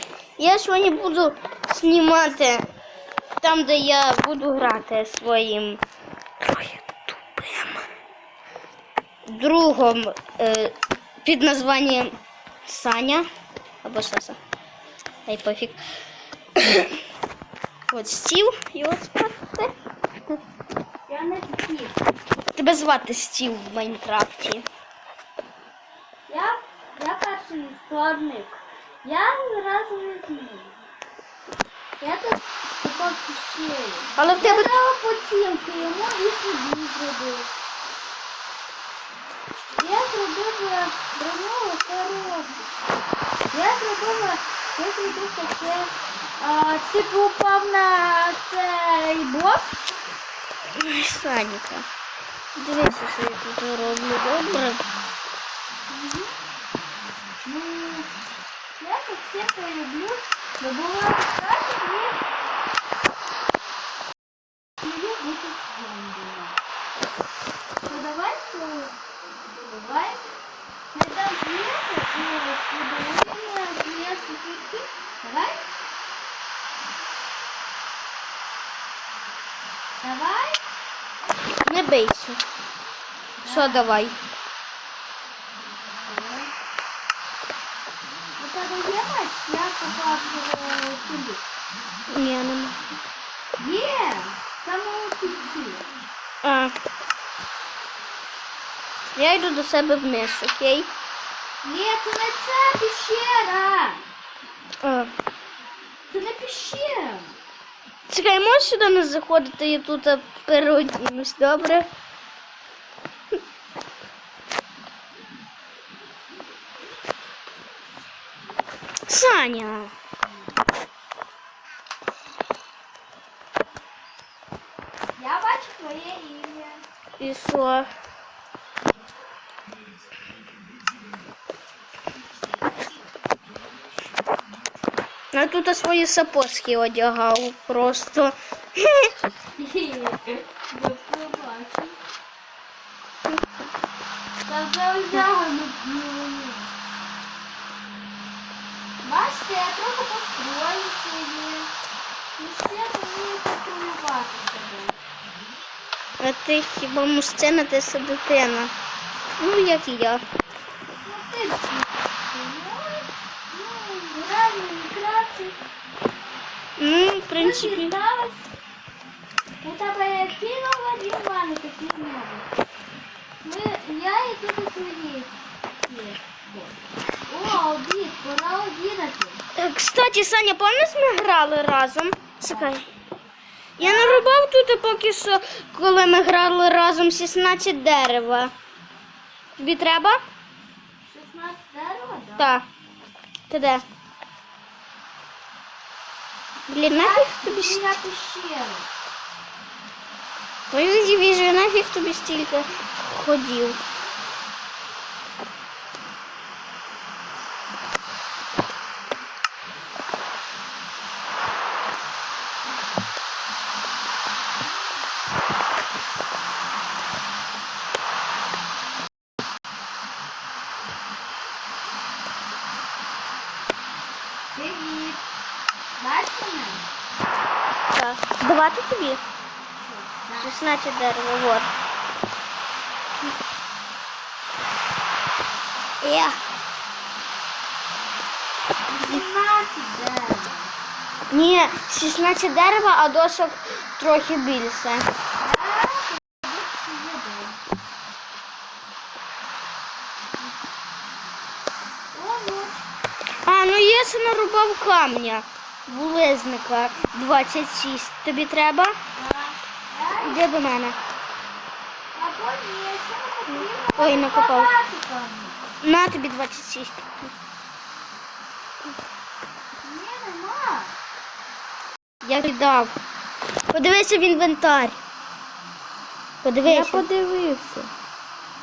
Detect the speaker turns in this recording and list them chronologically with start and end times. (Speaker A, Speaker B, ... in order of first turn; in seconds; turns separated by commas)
Speaker A: 0.4-2.6, Speaker A: 3.4-5.8, Speaker A: 6.4-7.8, Speaker A: 9.3-10.7, Speaker A: 11.2-13.3, Speaker A: 13.8-14.4, Speaker A: 15.3-15.8, Speaker A: 16.6-17.0, Speaker A: 17.9-19.7, Speaker B: 21.1-22.0, Speaker A: 22.6-24.7, Speaker B: 26.3-30.8, Speaker B: 32.0-37.5, Speaker A: 34.2-34.8, Speaker B: 39.8-42.7, Speaker B: 43.5-49.7, Speaker A: 50.8-51.9, Speaker A: 52.6-54.8, Speaker B: 55.9-56.3, Speaker B: 57.5-58.1, Speaker B: 58.8-62.2, Speaker B: 64.8-66.6, Speaker B: 67.8-69.0, Speaker B: 69.7-70.2, Speaker B: 70.9-75.6, Speaker B: 80.0-80.6, Speaker A: 81.7-82.4, Speaker B: 83.4-83.9, Speaker A: 83.5-84.2, Speaker B: 86.0-86.5, Speaker B: 88.4-91.4, Speaker A: 92.1-92.8, Speaker B: 93.6-95.9, Speaker A: 96.4-96.7, Speaker A: 99.2-100.9, Speaker B: 101.6-104.0, Speaker A: 104.8-105.1, Speaker B: 106.1-107.4, Speaker A: 108.1-111.9, Speaker A: 119.1-119.9, Speaker B: 125.2-126.8, Speaker A: 127.2-127.9, Speaker A: 135.3-139.1, Speaker B: 139.6-142.0, Speaker B: 144.4-146.7, Speaker B: 149.0-151.7, Speaker B: 152.4-155.0, Speaker A: 156.2-158.7, Speaker A: 159.4-160.2, Speaker B: 161.0-165.6, Speaker A: 166.8-167.9, Speaker B: 167.4-168.5, Speaker B: 169.6-172.5, Speaker B: 173.4-179.4, Speaker A: 179.6-182.9, Speaker B: 182.5-182.8, Speaker A: 183.8-188.5, Speaker B: 183.8-184.3, Speaker A: 189.6-190.2, Speaker B: 191.0-192.5, Speaker A: 192.4-192.7, Speaker A: 193.5-193.8, Speaker A: 196.7-197.9, Speaker B: 196.9-198.9, Speaker A: 200.7-203.8, Speaker B: 224.6-225.2, Speaker B: 226.0-226.8, Speaker A: 227.9-229.2, Speaker B: 229.8-230.6, Speaker A: 230.4-231.7, Speaker A: 236.0-236.4, Speaker B: 238.9-240.7, Speaker A: 241.3-245.1, Speaker B: 245.4-247.6, Speaker B: 252.1-252.9, Speaker A: 253.5-259.0, Speaker B: 259.2-260.4, Speaker A: 260.2-261.0, Speaker B: 262.1-265.6, Speaker A: 263.6-264.7, Speaker A: 265.8-267.3, Speaker B: 269.8-271.0, Speaker A: 272.2-273.0, Speaker A: 273.7-275.0, Speaker A: 276.4-277.1, Speaker B: 276.6-277.9